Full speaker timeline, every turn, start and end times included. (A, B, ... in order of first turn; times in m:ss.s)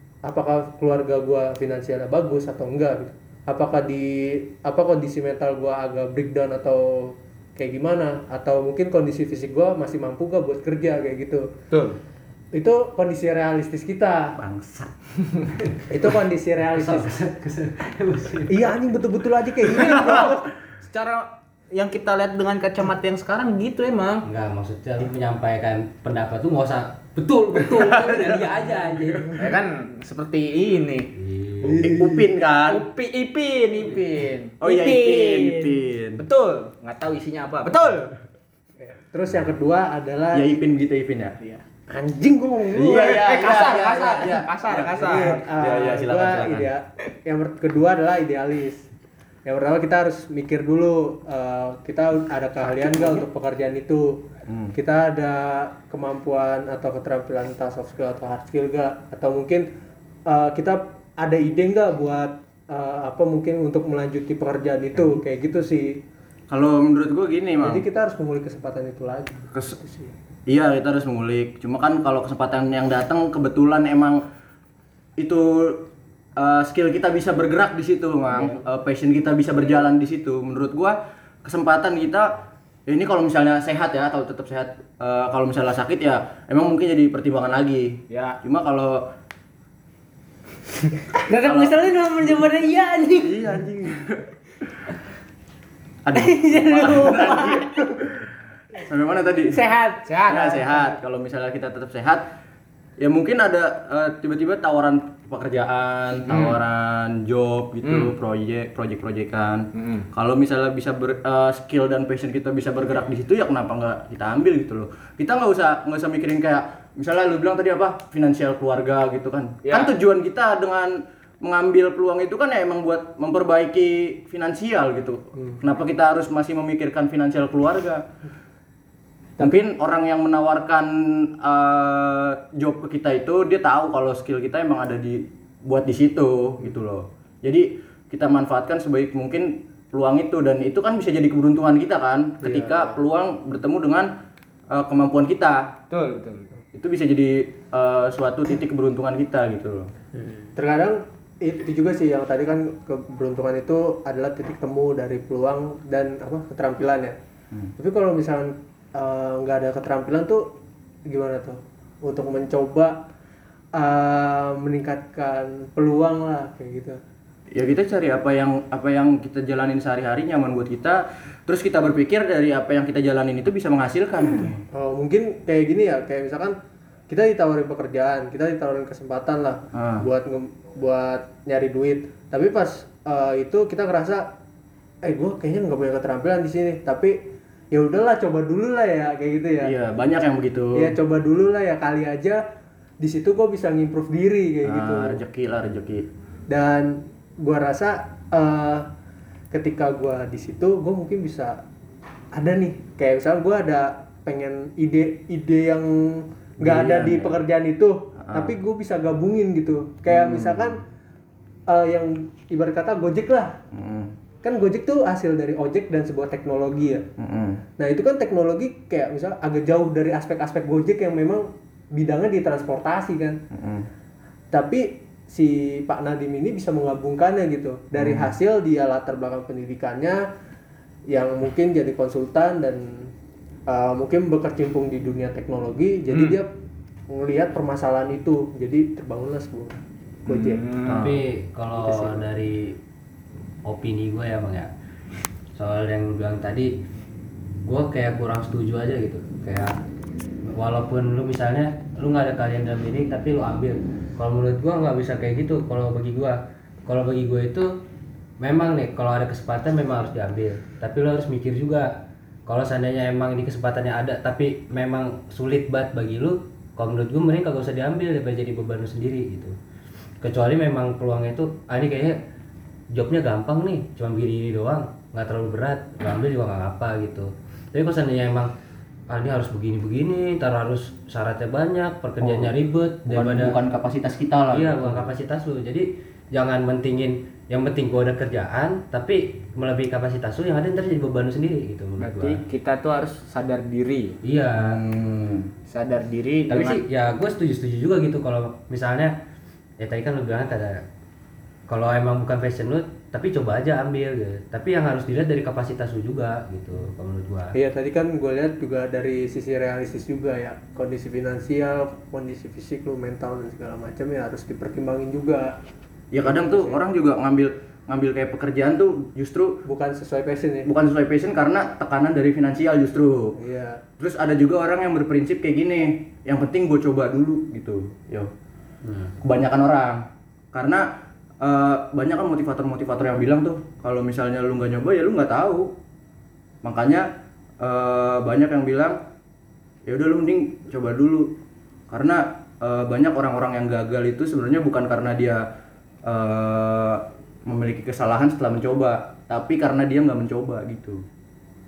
0:00.2-0:11.5 A
0:11.7-0:12.0 B
0:12.5-0:14.4 A
0:14.4-0:14.9 C
0:15.9-0:17.1 A
0:16.7-0:18.7 D
0:18.5-0:20.4 A
0:19.9-0:24.3 B
0:24.2-0:29.2 D
0:27.6-0:29.4 E
0:27.7-0:29.3 C
0:29.4-0:31.1 B
0:31.2-0:31.9 D
0:31.6-0:32.3 A
0:31.7-0:32.9 C
0:32.7-0:34.6 B
0:34.6-0:36.2 C
0:34.6-0:35.8 E
0:36.2-0:38.1 B
0:38.8-0:40.6 A
0:40.3-0:41.4 C
0:41.9-0:43.4 A
0:42.7-0:46.7 C
0:43.0-0:45.4 B
0:45.0-0:48.8 A
0:49.4-0:59.7 A
0:54.5-0:54.7 C
1:00.3-1:06.0 A
1:06.5-1:07.8 C
1:07.6-1:10.1 A
1:10.5-1:14.2 C
1:15.2-1:29.1 C
1:18.3-1:18.6 B
1:28.1-1:28.4 B
1:31.1-1:33.4 E
1:31.4-1:31.8 C
1:33.2-1:34.3 C
1:36.0-1:38.3 C
1:36.1-1:37.7 E
1:38.8-1:39.6 C
1:39.5-1:40.7 E
1:40.0-1:40.6 B
1:40.3-1:42.3 C
1:43.0-2:08.0 C
1:46.3-1:46.6 B
1:47.8-1:48.1 B
1:49.7-1:50.1 B
1:59.6-1:59.9 B
2:09.4-2:24.1 C
2:22.4-2:23.0 A
2:24.7-2:25.8 C
2:25.9-2:26.5 B
2:26.7-2:29.9 C
2:30.6-2:37.2 A
2:37.8-2:43.0 A
2:43.8-2:47.0 A
2:47.5-2:54.6 C
2:54.7-2:56.6 A
2:57.1-3:04.3 A
2:59.7-3:00.1 C
3:05.0-3:09.7 A
3:09.6-3:11.0 C
3:10.8-3:12.4 A
3:13.0-3:15.2 A
3:14.6-3:16.1 C
3:16.5-3:18.9 A
3:19.5-3:21.6 A
3:22.3-3:30.8 A
3:26.6-3:27.4 C
3:28.2-3:28.6 C
3:30.1-3:30.8 C
3:31.7-3:33.6 A
3:33.7-3:34.1 C
3:34.4-3:37.1 A
3:37.2-3:37.6 C
3:37.8-3:43.4 A
3:43.5-3:43.9 C
3:44.5-3:50.2 A
3:47.9-3:48.3 C
3:51.1-3:53.1 A
3:53.7-3:56.5 A
3:56.1-3:56.4 B
3:57.1-4:00.6 A
4:00.3-4:01.2 B
4:00.9-4:02.8 D
4:01.8-4:02.3 A
4:03.7-4:04.7 D
4:05.6-4:06.7 D
4:07.7-4:09.7 D
4:10.4-4:17.8 D
4:18.4-4:21.9 D
4:22.5-4:29.6 D
4:30.2-4:32.2 D
4:32.9-4:38.5 D
4:39.1-4:43.6 D
4:42.2-4:42.6 C
4:43.1-4:45.1 C
4:44.5-4:52.4 D
4:52.0-4:54.2 B
4:54.2-4:54.8 D
4:54.6-4:55.5 C
4:55.7-4:56.8 B
4:56.5-4:59.2 D
4:59.8-5:00.8 D
5:01.7-5:07.6 D
5:07.5-5:15.6 A
5:16.1-5:19.6 C
5:16.2-5:16.8 A
5:19.6-5:20.7 A
5:20.6-5:23.4 C
5:23.4-5:23.8 A
5:24.0-5:28.3 C
5:28.9-5:29.1 D
5:29.2-5:30.9 C
5:31.4-5:35.7 C
5:36.6-5:37.1 C
5:37.6-5:39.0 C
5:39.9-5:41.4 C
5:41.9-5:45.4 C
5:46.1-5:51.0 C